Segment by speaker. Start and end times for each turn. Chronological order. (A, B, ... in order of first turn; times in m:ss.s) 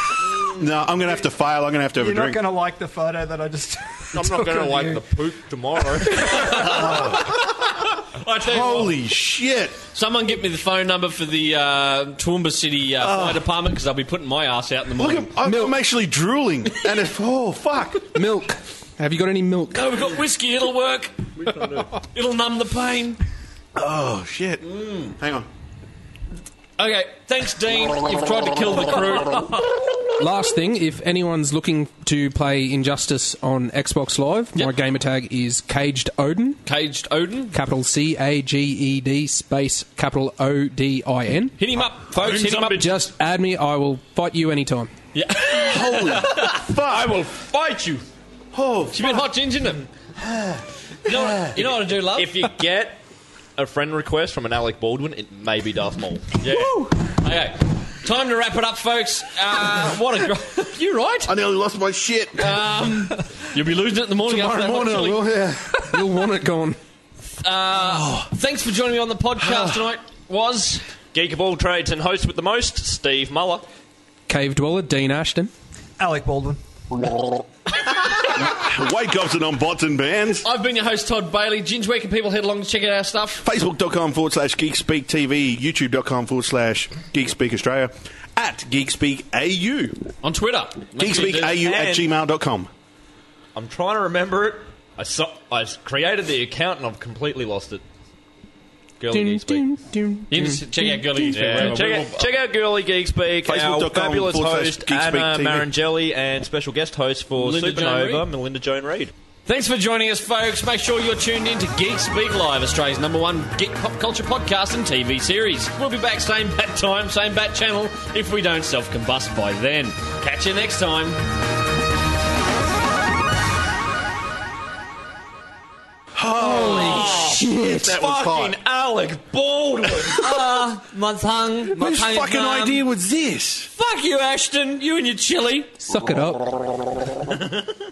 0:00.5-0:02.4 A
0:02.0-0:05.0 B
0:04.1-0:06.7 C
0:06.1-0:07.2 B
0:06.3-0:08.9 D
0:06.6-0:07.4 A
0:08.3-0:09.8 A
0:09.9-0:15.4 D
0:13.0-0:13.5 A
0:15.0-0:18.2 A
0:15.4-0:15.7 E
0:18.1-0:20.0 E
0:19.7-0:23.2 D
0:23.8-0:25.5 A
0:24.8-0:25.1 D
0:26.8-0:30.1 D
0:30.2-0:36.6 E
0:36.6-0:37.6 D
0:37.5-0:41.6 E
0:41.6-0:42.8 D
0:42.1-0:43.0 C
0:42.7-0:44.9 E
0:45.1-0:46.6 D
0:45.6-0:47.3 A
0:46.2-0:48.0 C
0:48.5-0:49.3 A
0:48.9-0:49.8 D
0:50.2-0:51.5 A
0:51.0-0:52.5 D
0:51.5-0:53.0 C
0:53.6-0:56.4 C
0:56.4-1:01.3 D
1:01.2-1:02.7 A
1:02.4-1:05.3 D
1:04.2-1:06.0 A
1:05.8-1:06.8 E
1:07.4-1:10.8 D
1:07.8-1:08.3 A
1:09.4-1:09.8 A
1:11.1-1:13.6 C
1:14.3-1:15.5 E
1:16.0-1:16.6 B
1:18.2-1:20.4 A
1:20.4-1:23.4 D
1:23.4-1:30.1 A
1:30.2-1:31.6 D
1:31.0-1:32.7 A
1:31.1-1:32.1 C
1:33.5-1:37.8 C
1:39.0-1:39.6 C
1:39.1-1:41.7 E
1:40.3-1:42.3 D
1:41.3-1:49.1 C
1:43.4-1:45.7 A
1:47.4-1:48.2 D
1:49.4-2:01.2 D
2:06.1-2:08.6 A
2:06.4-2:10.3 C
2:06.5-2:07.5 D
2:07.3-2:07.7 E
2:10.1-2:12.8 D
2:11.7-2:13.7 A
2:13.7-2:15.8 D
2:15.8-2:16.8 E
2:17.2-2:17.6 C